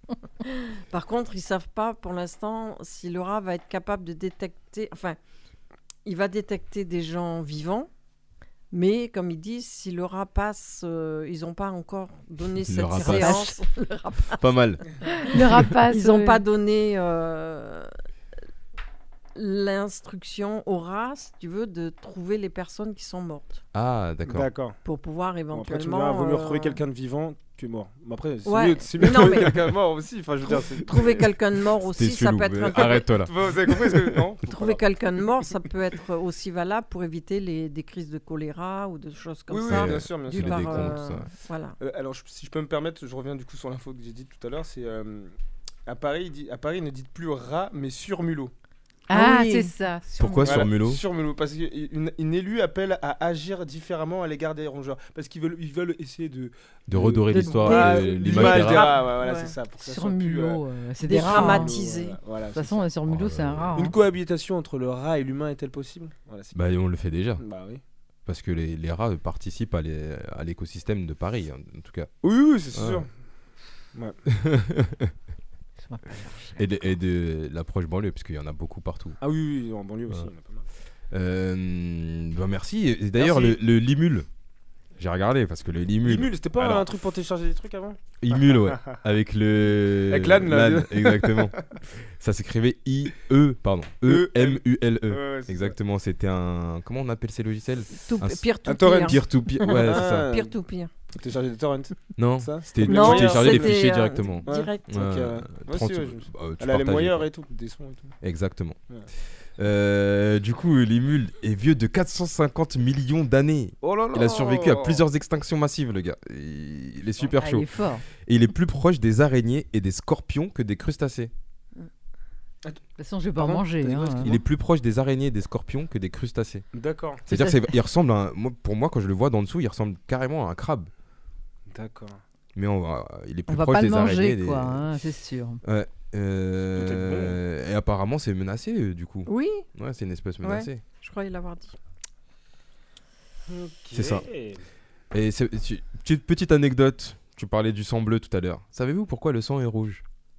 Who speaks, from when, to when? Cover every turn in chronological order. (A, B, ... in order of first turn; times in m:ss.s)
0:00.4-0:05.2 A
0:06.0-0:07.9 A
0:08.7-0:14.5 A
0:12.6-0:13.5 B
0:13.0-0:13.5 C
0:14.4-0:14.8 B
0:15.2-0:16.4 C
0:15.3-0:17.9 A
0:19.3-0:23.6 A
0:23.7-0:24.5 B
0:24.2-0:24.8 D
0:24.8-0:26.8 A
0:25.5-0:31.3 D
0:28.4-0:29.7 A
0:30.5-0:33.1 A
0:31.8-0:34.2 B
0:32.8-0:34.8 D
0:34.4-0:41.8 A
0:39.5-0:41.0 D
0:39.7-0:41.3 B
0:41.8-0:45.3 D
0:45.8-0:48.5 D
0:49.1-0:50.6 C
0:49.1-0:49.7 A
0:50.2-0:51.0 B
0:50.4-1:02.9 D
0:56.9-0:59.0 B
0:57.3-0:59.5 A
0:59.8-1:01.8 C
1:01.0-1:02.2 A
1:02.5-1:04.0 C
1:03.1-1:03.7 B
1:03.7-1:06.6 D
1:06.5-1:07.4 B
1:07.4-1:07.8 D
1:08.2-1:12.1 B
1:12.2-1:13.1 D
1:12.7-1:13.0 B
1:14.3-1:15.1 B
1:15.8-1:16.6 C
1:16.6-1:19.2 B
1:19.2-1:20.6 D
1:21.1-1:24.3 B
1:23.2-1:23.6 D
1:25.0-1:26.9 B
1:26.0-1:28.0 D
1:28.2-1:31.6 B
1:28.5-1:29.0 D
1:30.1-1:31.6 D
1:32.2-1:40.3 B
1:34.0-1:35.7 D
1:38.0-1:40.9 A
1:38.6-1:40.5 D
1:41.1-1:48.2 D
1:42.2-1:47.3 B
1:42.8-1:45.0 A
1:48.2-1:48.8 B
1:49.6-1:57.7 B
1:53.8-1:55.0 D
1:57.4-1:58.0 C
1:58.2-2:01.3 B
2:03.0-2:04.3 C
2:03.4-2:04.4 D
2:04.2-2:06.6 B
2:06.7-2:07.2 D
2:07.3-2:10.9 B
2:11.7-2:12.2 D
2:12.5-2:14.9 B
2:13.5-2:15.6 C
2:15.6-2:20.8 B
2:16.7-2:17.4 D
2:19.2-2:19.6 A
2:20.4-2:21.8 A
2:23.5-2:24.6 D
2:23.9-2:24.2 B
2:25.1-2:30.0 B